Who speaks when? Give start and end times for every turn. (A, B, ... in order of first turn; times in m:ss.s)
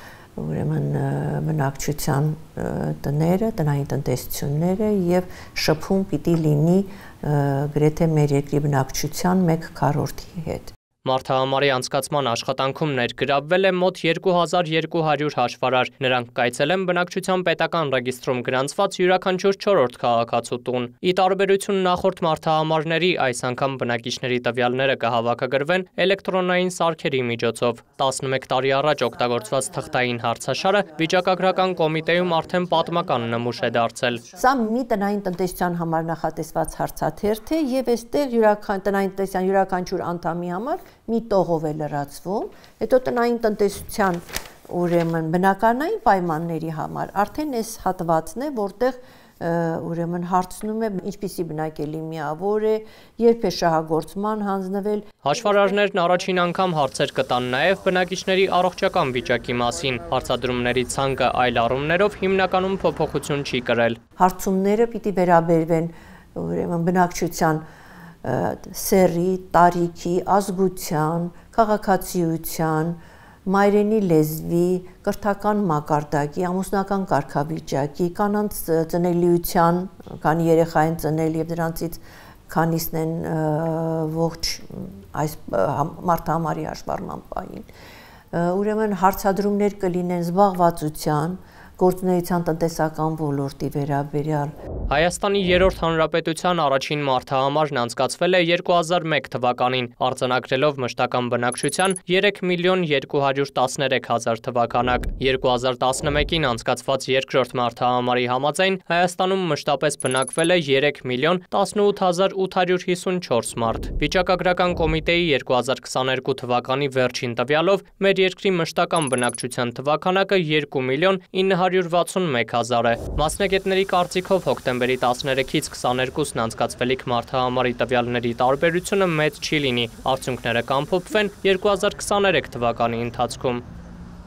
0:00.4-0:10.7 A
0:11.0-0:34.3 B
0:34.3-0:55.1 A
0:55.2-1:04.0 B
1:04.2-1:07.6 A
1:08.2-1:27.7 A
1:28.3-1:34.5 A
1:34.9-2:13.6 B